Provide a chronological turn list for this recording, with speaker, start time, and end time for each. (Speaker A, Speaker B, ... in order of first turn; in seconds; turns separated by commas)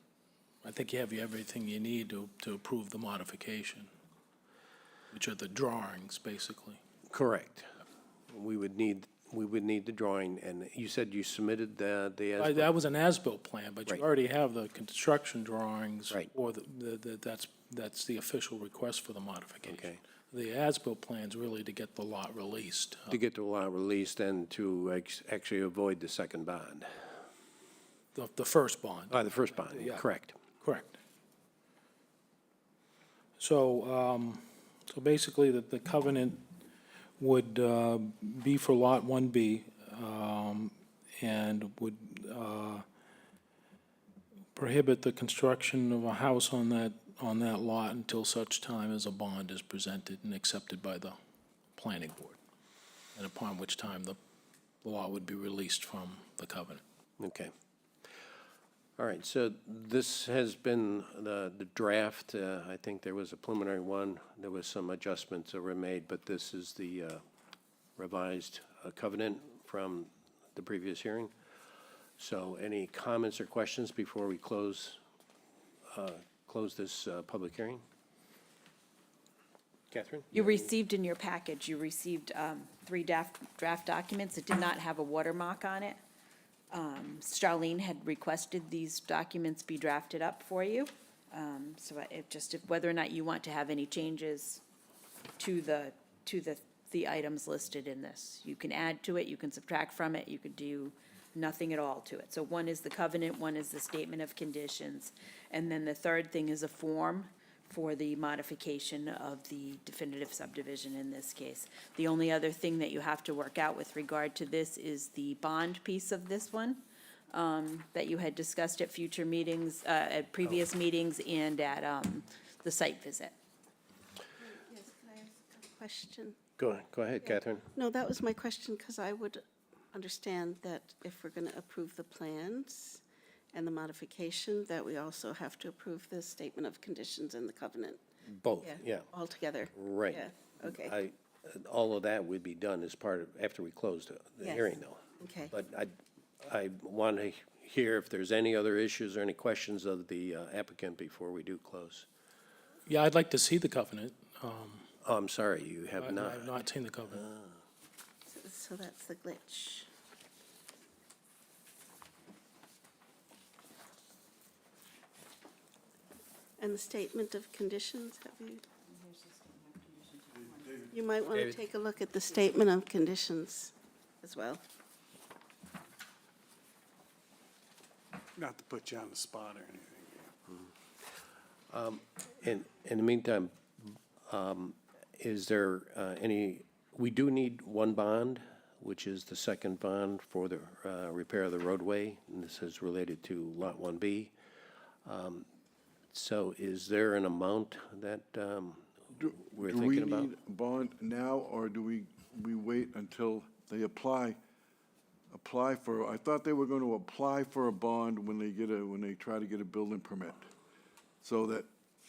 Speaker A: 0.6-3.9, Speaker A: 5.1-6.8, Speaker B: 7.1-7.7, Speaker B: 8.3-12.7, Speaker A: 12.4-23.2, Speaker B: 19.6-20.0, Speaker B: 23.1-26.9, Speaker A: 28.1-30.1, Speaker B: 29.1-30.4, Speaker A: 30.6-31.0, Speaker A: 33.4-36.4, Speaker A: 37.2-42.8, Speaker A: 44.5-51.2, Speaker A: 51.8-52.4, Speaker A: 53.1-54.2, Speaker A: 54.8-56.8, Speaker B: 57.2-57.5, Speaker B: 59.0-67.2, Speaker B: 68.0-71.3, Speaker B: 72.2-75.0, Speaker B: 75.9-77.8, Speaker B: 79.9-80.7, Speaker C: 80.3-86.0, Speaker C: 86.7-94.6, Speaker C: 95.4-116.8, Speaker C: 117.3-123.3, Speaker D: 124.4-126.4, Speaker B: 126.6-127.6, Speaker D: 127.8-129.4, Speaker D: 129.9-133.0, Speaker D: 133.5-138.0, Speaker B: 138.3-139.1, Speaker D: 138.6-140.9, Speaker B: 139.7-145.0, Speaker D: 144.4-145.5, Speaker B: 145.5-152.1, Speaker A: 152.8-154.8, Speaker B: 155.0-156.5, Speaker A: 156.0-157.2, Speaker B: 157.2-157.5, Speaker D: 158.3-159.9, Speaker D: 166.6-168.6, Speaker C: 168.9-170.9, Speaker E: 170.5-170.8, Speaker D: 170.9-174.6, Speaker E: 178.3-180.3, Speaker B: 181.7-194.3, Speaker B: 195.0-195.4, Speaker B: 196.1-198.9, Speaker F: 199.1-204.4, Speaker B: 199.6-200.3, Speaker F: 205.3-210.5, Speaker F: 211.2-211.7